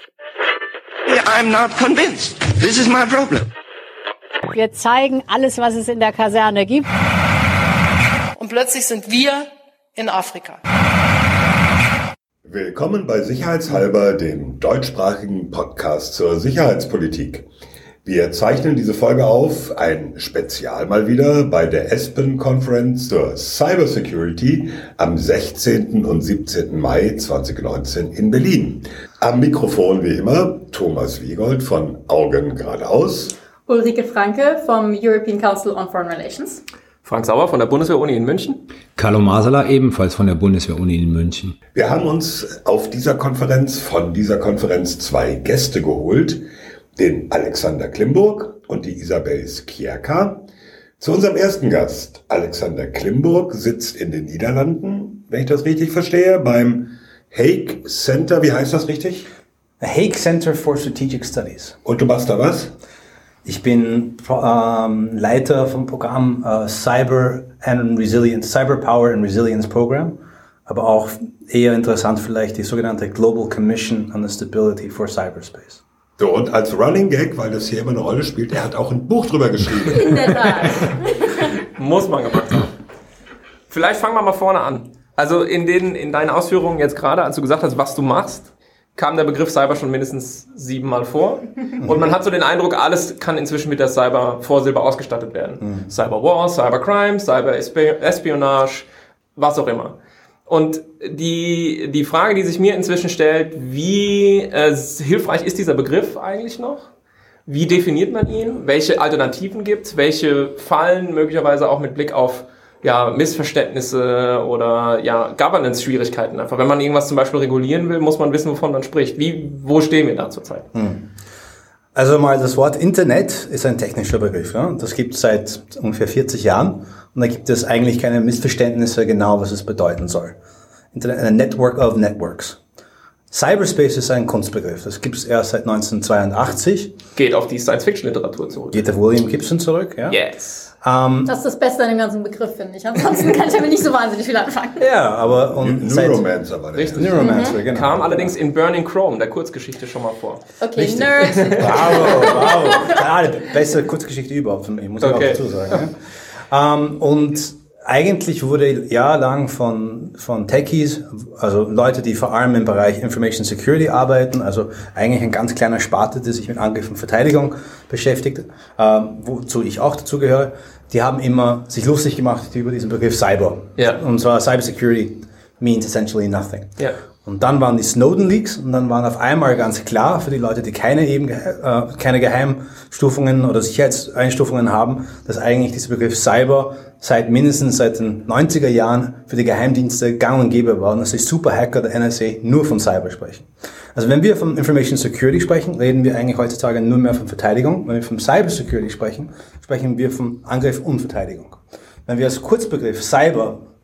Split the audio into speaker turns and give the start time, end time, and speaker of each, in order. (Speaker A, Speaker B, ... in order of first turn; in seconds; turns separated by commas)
Speaker A: 1.1-3.5, Speaker B: 4.5-6.8, Speaker C: 8.4-10.6, Speaker D: 12.4-17.4, Speaker D: 18.0-33.3, Speaker E: 33.7-36.6, Speaker F: 37.0-38.6, Speaker G: 39.0-41.5, Speaker D: 41.7-46.4, Speaker D: 47.0-50.4, Speaker D: 51.0-59.3, Speaker H: 59.8-61.8, Speaker D: 61.8-62.7, Speaker H: 63.4-75.8, Speaker D: 76.2-80.3, Speaker E: 79.9-81.0, Speaker F: 81.7-82.7, Speaker F: 83.7-100.0, Speaker H: 91.8-92.1, Speaker H: 95.6-95.9, Speaker F: 100.5-106.9, Speaker F: 107.5-120.7, Speaker H: 120.7-121.1, Speaker H: 121.9-130.3, Speaker H: 130.9-132.6, Speaker H: 133.3-136.9, Speaker F: 137.1-138.8, Speaker H: 138.7-140.2, Speaker F: 140.1-140.7, Speaker H: 140.8-141.3, Speaker E: 141.2-144.9, Speaker H: 144.8-146.3, Speaker D: 145.5-147.2, Speaker F: 146.7-150.4, Speaker H: 146.9-148.3, Speaker E: 147.2-147.6, Speaker E: 150.6-153.0, Speaker H: 150.7-156.0, Speaker F: 151.2-152.4, Speaker F: 155.0-155.8, Speaker H: 156.5-176.7, Speaker H: 177.2-203.6